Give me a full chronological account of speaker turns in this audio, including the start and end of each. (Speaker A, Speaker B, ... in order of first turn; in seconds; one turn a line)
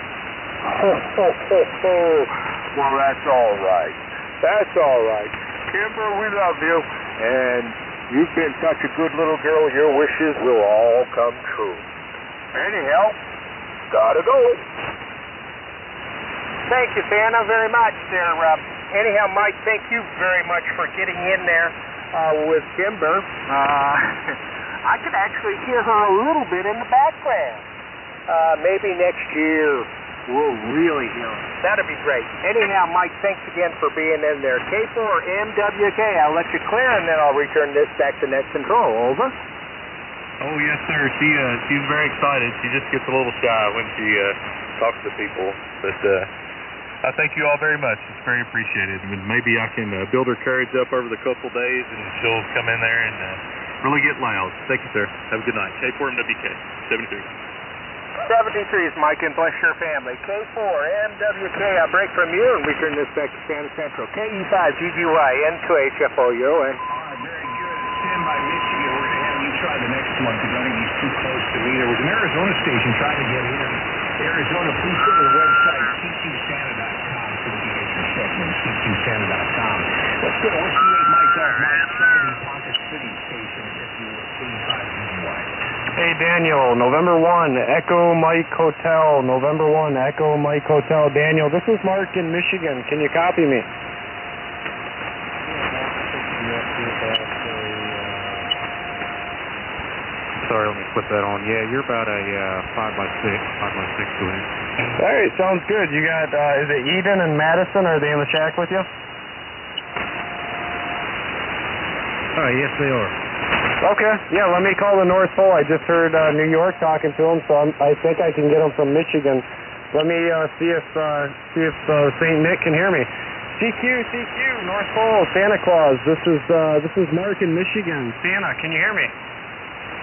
Speaker A: 0.6-11.8
Speaker A: 12.5-13.2
Speaker A: 13.9-14.6
Speaker A: 16.7-27.6
Speaker A: 28.3-39.3
Speaker B: 40.4-46.3
Speaker B: 47.0-57.3
Speaker A: 58.2-66.8
Speaker C: 66.9-85.5
Speaker D: 86.0-93.7
Speaker E: 95.5-98.5
Speaker E: 100.4-104.5
Speaker D: 105.0-108.9
Speaker E: 112.3-113.1
Speaker D: 113.8-129.1